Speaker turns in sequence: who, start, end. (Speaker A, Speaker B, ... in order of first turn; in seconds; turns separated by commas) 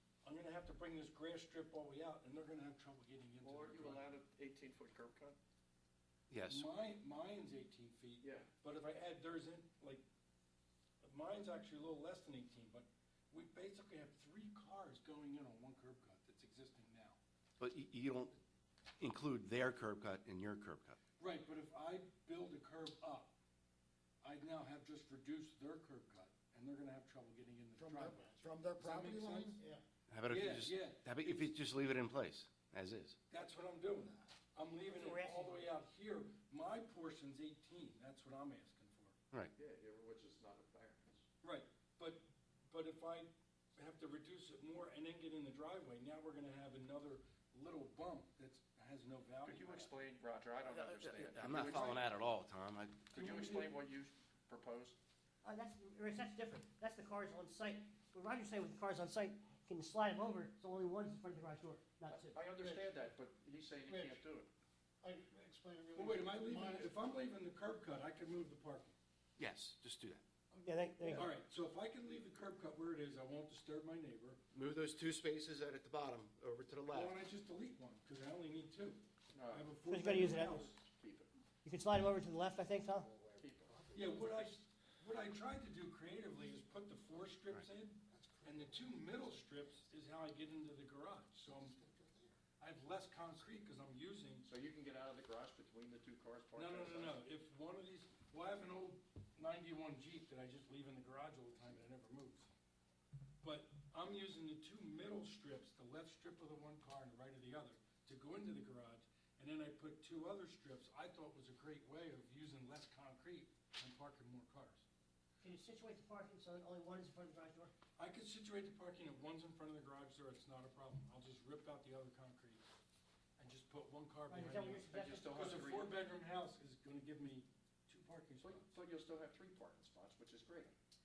Speaker A: 0.2-4.2, Speaker B: 3.5-5.3, Speaker C: 6.3-6.7, Speaker A: 6.5-10.0, Speaker A: 11.0-17.2, Speaker C: 17.6-18.4, Speaker C: 19.0-21.0, Speaker A: 21.2-23.4, Speaker A: 24.2-29.6, Speaker D: 27.8-29.8, Speaker C: 30.1-33.2, Speaker A: 30.3-31.5, Speaker A: 33.3-39.2, Speaker E: 34.9-35.6, Speaker B: 39.5-41.2, Speaker A: 41.4-50.0, Speaker B: 49.4-52.0, Speaker C: 50.7-53.3, Speaker B: 53.1-55.0, Speaker A: 53.1-53.7, Speaker E: 55.4-62.4, Speaker B: 62.1-64.5, Speaker D: 63.9-64.2, Speaker D: 65.0-66.9, Speaker A: 65.9-68.9, Speaker C: 69.4-70.2, Speaker E: 70.6-71.3, Speaker A: 71.1-74.4, Speaker C: 74.5-77.2, Speaker A: 76.9-80.8, Speaker B: 79.3-79.7, Speaker E: 79.8-80.6, Speaker B: 80.7-81.3, Speaker E: 81.6-83.1, Speaker D: 83.1-84.4, Speaker B: 83.4-83.8, Speaker A: 83.9-91.8, Speaker D: 88.1-89.2, Speaker D: 91.7-92.3, Speaker A: 92.6-94.5, Speaker B: 94.4-97.2, Speaker A: 96.5-102.5, Speaker A: 103.4-114.8, Speaker E: 115.4-117.7, Speaker A: 118.0-122.6, Speaker A: 123.4-128.7, Speaker E: 124.3-125.7, Speaker B: 124.9-125.9, Speaker B: 128.4-130.7